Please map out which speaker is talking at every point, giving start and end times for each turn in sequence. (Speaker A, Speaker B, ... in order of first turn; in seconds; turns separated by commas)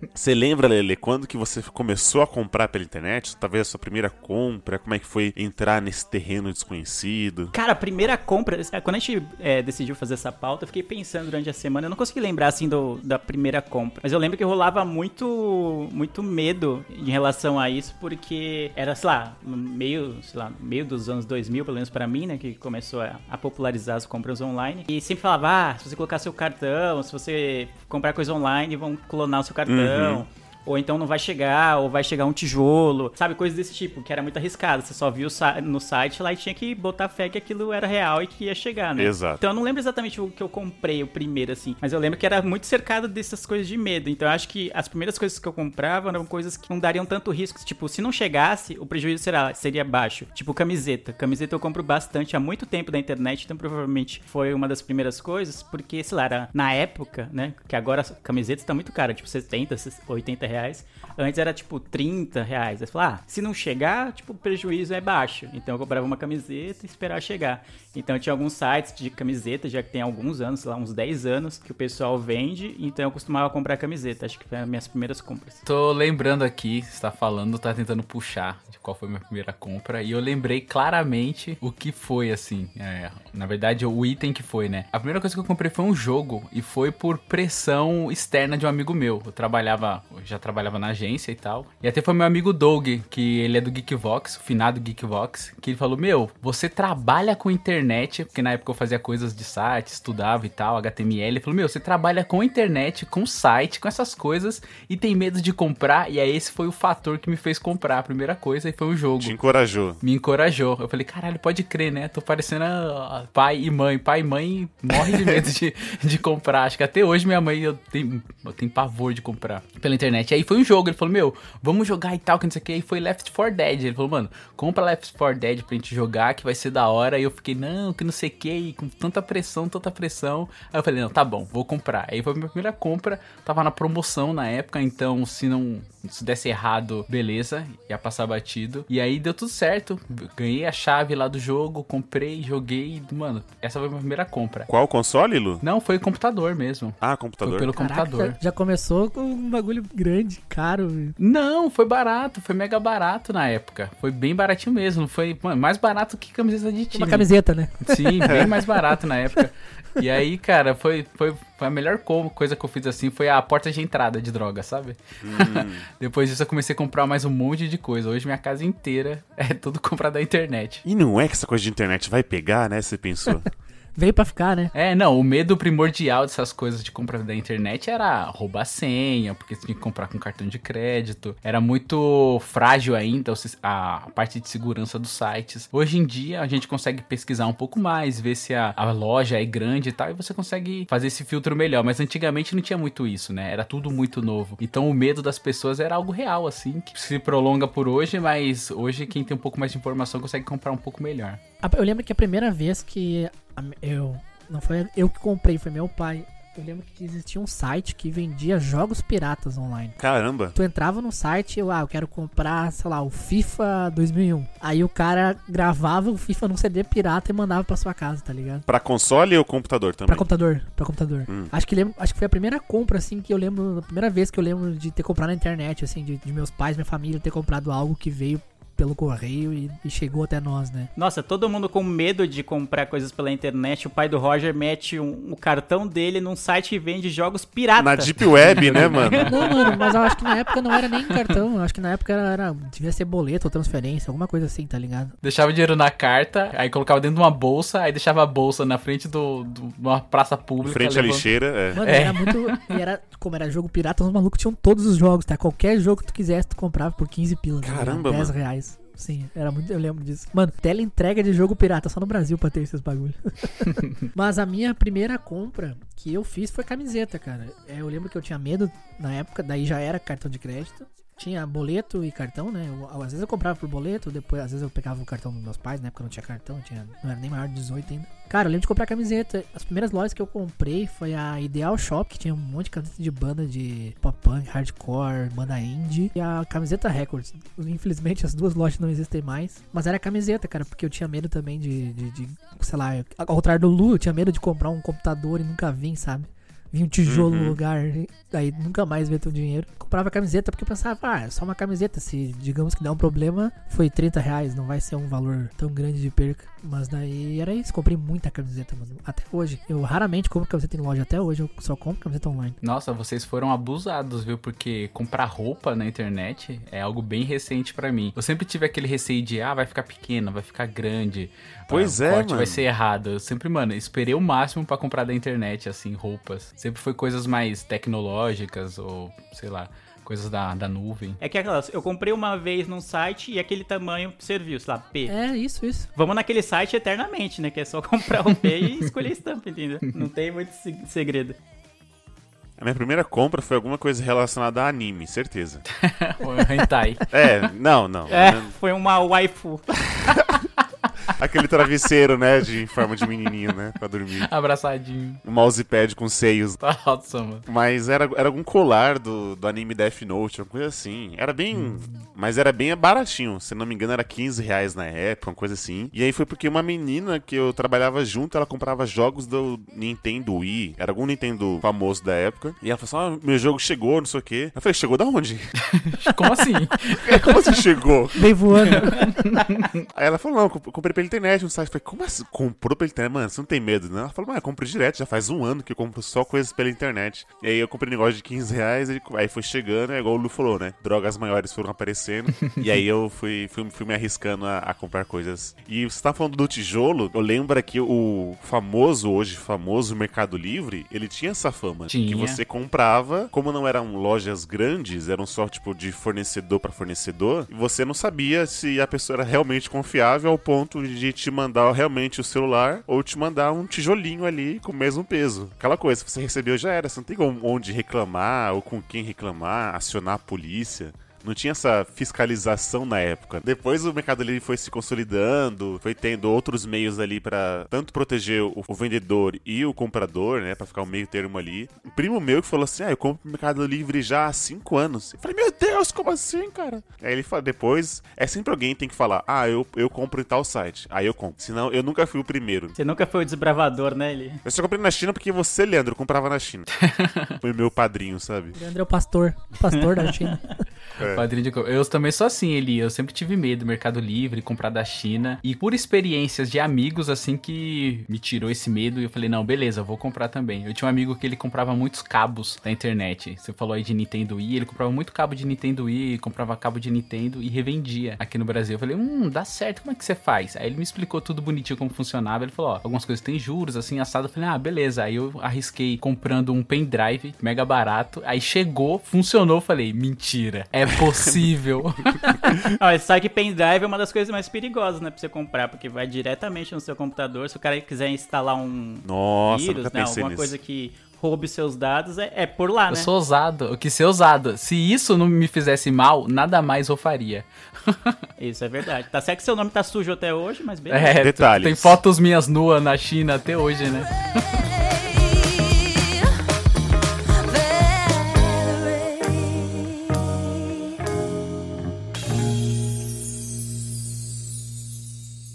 Speaker A: 0.1-7.5, Speaker B: 7.5-75.6, Speaker A: 29.6-30.2, Speaker A: 38.9-39.4, Speaker C: 75.7-109.3, Speaker A: 109.2-110.0, Speaker C: 110.0-144.7, Speaker A: 115.1-115.4, Speaker A: 144.7-145.6, Speaker C: 145.6-148.4, Speaker A: 147.0-147.7, Speaker D: 147.7-151.2, Speaker C: 151.2-157.3, Speaker D: 156.9-159.4, Speaker C: 157.8-170.8, Speaker A: 158.2-158.5, Speaker A: 165.2-165.8, Speaker A: 170.8-173.4, Speaker D: 173.9-174.7, Speaker C: 174.7-201.4, Speaker D: 201.6-210.0, Speaker A: 210.0-210.5, Speaker D: 210.5-218.7, Speaker A: 218.7-220.3, Speaker D: 220.1-230.9, Speaker B: 231.0-239.8, Speaker A: 237.8-239.3, Speaker C: 238.4-239.5, Speaker D: 238.9-245.1, Speaker C: 245.2-251.3, Speaker A: 250.6-251.8, Speaker D: 251.7-312.6, Speaker C: 251.8-252.6, Speaker A: 257.6-258.3, Speaker A: 297.1-297.6, Speaker C: 312.6-331.2, Speaker A: 321.7-322.6, Speaker B: 331.2-335.1, Speaker D: 335.1-335.9, Speaker B: 335.9-341.4, Speaker A: 342.6-345.6, Speaker C: 345.8-347.1, Speaker A: 347.1-348.5, Speaker B: 348.1-349.6, Speaker A: 349.9-350.5, Speaker A: 351.1-354.3, Speaker C: 354.2-355.2, Speaker A: 355.2-356.6, Speaker C: 356.6-357.4, Speaker A: 357.5-375.5, Speaker C: 361.5-362.0, Speaker C: 375.7-377.6, Speaker A: 377.0-378.3, Speaker D: 378.1-379.1, Speaker C: 378.8-379.7, Speaker A: 379.9-442.8, Speaker C: 401.9-402.4, Speaker B: 442.8-444.4, Speaker A: 444.4-446.7, Speaker C: 446.8-447.3, Speaker A: 447.4-448.6, Speaker D: 448.5-450.5, Speaker B: 449.7-450.4, Speaker A: 451.0-451.2, Speaker C: 451.0-482.4, Speaker B: 482.8-493.1, Speaker A: 489.0-490.5, Speaker C: 492.9-498.2, Speaker B: 498.4-501.2, Speaker C: 500.9-504.1, Speaker A: 501.2-502.0